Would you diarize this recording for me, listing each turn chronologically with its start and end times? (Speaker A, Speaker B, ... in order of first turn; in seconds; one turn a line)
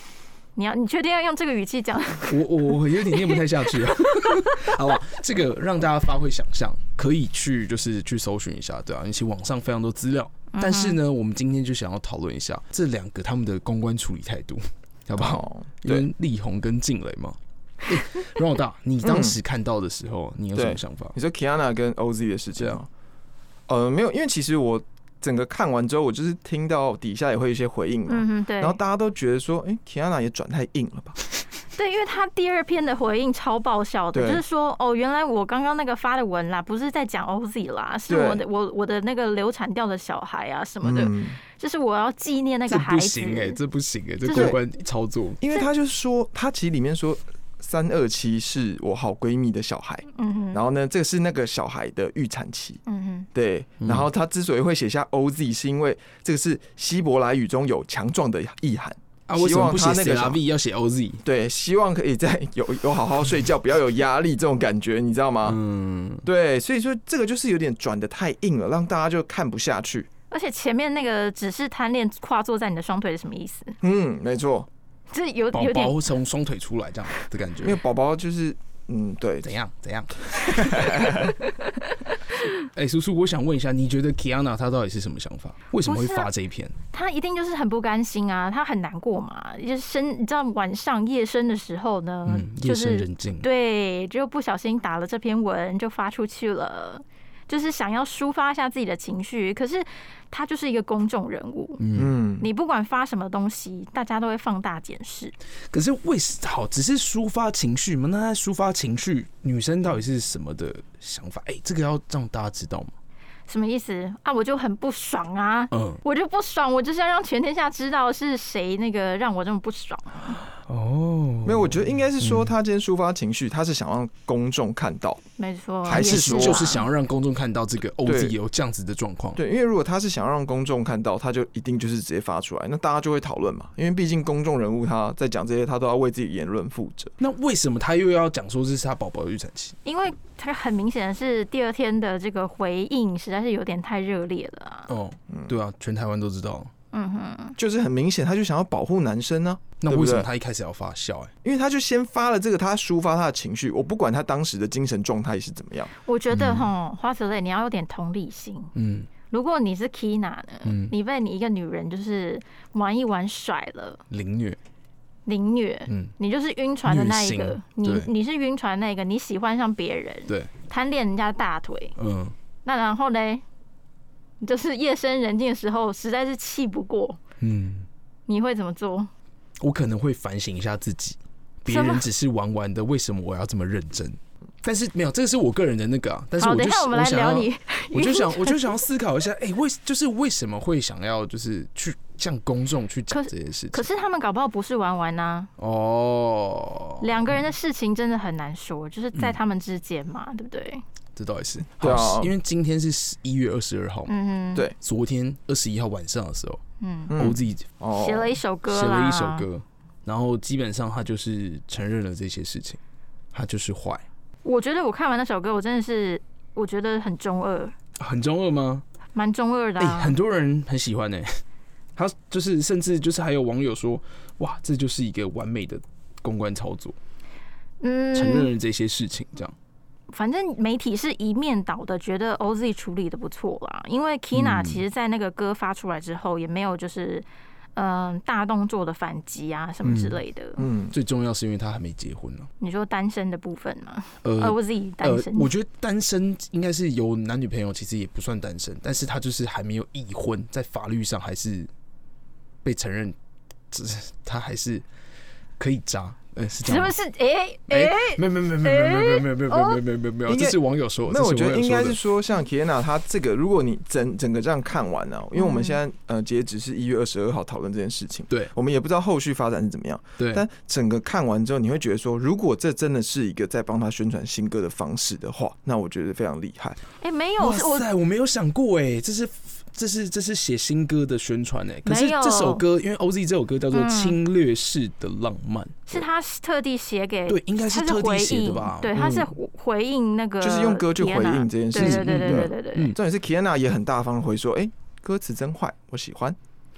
Speaker A: 0.6-4.7
Speaker B: 2.3-21.1
Speaker A: 10.5-11.0
Speaker C: 15.1-16.1
Speaker C: 19.0-19.4
Speaker C: 20.5-22.9
Speaker C: 23.7-31.2
Speaker A: 28.1-28.8
Speaker A: 31.8-43.6
Speaker C: 34.1-34.4
Speaker C: 38.1-38.4
Speaker C: 40.8-41.4
Speaker B: 42.7-45.4
Speaker A: 44.2-44.6
Speaker C: 44.3-44.6
Speaker C: 45.4-52.8
Speaker A: 50.1-50.6
Speaker A: 52.9-53.3
Speaker C: 53.3-60.4
Speaker B: 53.8-54.1
Speaker B: 59.3-61.2
Speaker C: 61.2-65.6
Speaker B: 65.5-66.3
Speaker C: 66.2-70.1
Speaker A: 70.3-73.8
Speaker C: 73.8-74.7
Speaker A: 75.1-76.0
Speaker B: 75.5-77.8
Speaker C: 77.6-79.5
Speaker B: 79.4-81.3
Speaker C: 80.3-81.3
Speaker A: 81.5-82.5
Speaker B: 82.7-86.8
Speaker A: 85.8-86.3
Speaker A: 86.9-101.8
Speaker B: 92.3-93.5
Speaker B: 101.8-102.1
Speaker C: 102.0-102.5
Speaker A: 102.4-105.3
Speaker B: 105.7-112.9
Speaker A: 113.5-120.4
Speaker B: 115.7-116.0
Speaker B: 120.6-122.5
Speaker C: 121.5-125.2
Speaker A: 125.4-126.9
Speaker C: 125.8-126.8
Speaker B: 125.9-129.4
Speaker C: 128.1-128.4
Speaker C: 129.3-137.2
Speaker B: 137.2-139.8
Speaker A: 139.8-144.9
Speaker B: 144.9-146.7
Speaker C: 145.3-145.6
Speaker A: 146.9-147.6
Speaker C: 147.6-150.3
Speaker B: 149.8-151.3
Speaker C: 151.4-155.9
Speaker A: 156.0-158.7
Speaker B: 156.3-156.7
Speaker B: 158.7-159.1
Speaker A: 159.3-164.0
Speaker B: 160.7-160.9
Speaker B: 164.1-164.6
Speaker A: 165.3-171.9
Speaker B: 166.8-168.1
Speaker B: 172.0-172.3
Speaker A: 172.7-173.4
Speaker A: 174.4-177.2
Speaker B: 177.4-177.9
Speaker A: 178.3-179.1
Speaker B: 179.6-193.9
Speaker A: 181.7-182.1
Speaker A: 186.4-188.8
Speaker A: 193.1-195.5
Speaker B: 195.6-197.1
Speaker A: 197.0-200.8
Speaker B: 201.2-204.1
Speaker C: 201.8-202.3
Speaker A: 204.1-204.7
Speaker B: 204.8-206.6
Speaker A: 206.8-207.1
Speaker C: 207.1-208.4
Speaker B: 207.1-207.7
Speaker A: 207.9-209.5
Speaker B: 208.7-212.8
Speaker B: 213.3-214.1
Speaker A: 214.4-217.7
Speaker B: 218.0-218.8
Speaker A: 219.2-220.2
Speaker B: 219.8-221.4
Speaker B: 222.0-227.0
Speaker A: 227.8-228.5
Speaker B: 228.1-229.6
Speaker A: 230.1-240.7
Speaker B: 234.3-234.8
Speaker B: 239.8-240.2
Speaker C: 240.6-240.9
Speaker B: 240.9-242.5
Speaker A: 242.6-245.5
Speaker B: 244.2-251.7
Speaker B: 252.6-253.2
Speaker B: 253.7-254.8
Speaker B: 255.6-256.9
Speaker A: 256.6-259.8
Speaker B: 257.7-262.0
Speaker C: 260.3-276.8
Speaker A: 265.4-265.8
Speaker B: 270.2-270.4
Speaker A: 277.0-277.9
Speaker B: 277.4-286.1
Speaker A: 281.9-282.6
Speaker A: 283.7-284.2
Speaker A: 285.9-292.9
Speaker B: 287.3-288.9
Speaker C: 288.9-289.3
Speaker C: 290.4-296.4
Speaker B: 291.7-293.0